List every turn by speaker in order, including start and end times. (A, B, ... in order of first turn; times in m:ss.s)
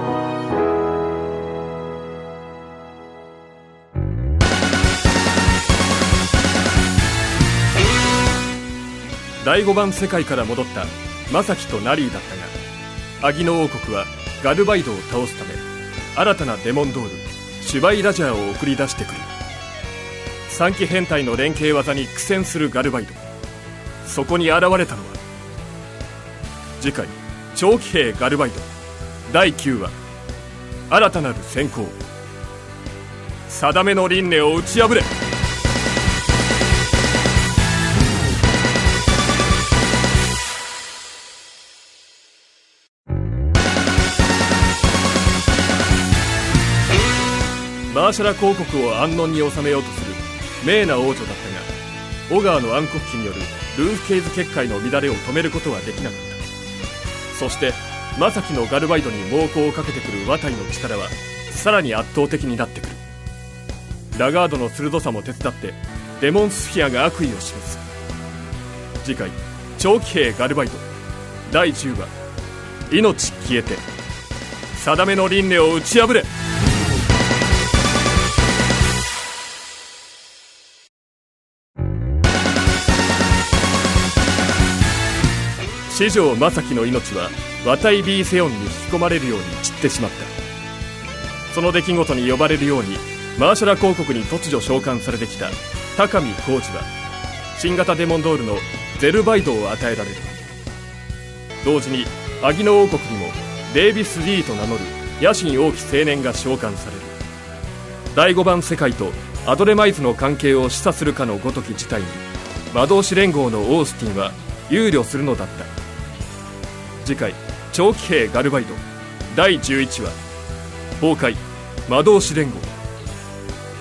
0:09.4-0:12.6 A
0:13.2-0:15.6 A
0:16.2-0:19.3 A
0:20.5-0:23.2 A
0:24.0-0:25.2 A
0:26.8-0:28.7 A
0:29.3-0:30.0 A
0:30.9-0:32.0 A
0:33.5-0:35.1 A
0:47.9-0:51.7 A
0:52.3-0:56.4 A
0:57.3-1:03.0 A
1:04.1-1:07.8 A
1:09.0-1:10.9 A
1:11.5-1:12.1 A
1:12.9-1:13.8 A
1:14.7-1:16.3 A
1:25.9-1:30.3 A
1:31.5-1:36.9 A
1:37.6-1:40.4 A
1:41.6-1:47.2 A
1:48.1-1:55.7 A
1:57.0-2:00.2 A
2:01.0-2:02.7 A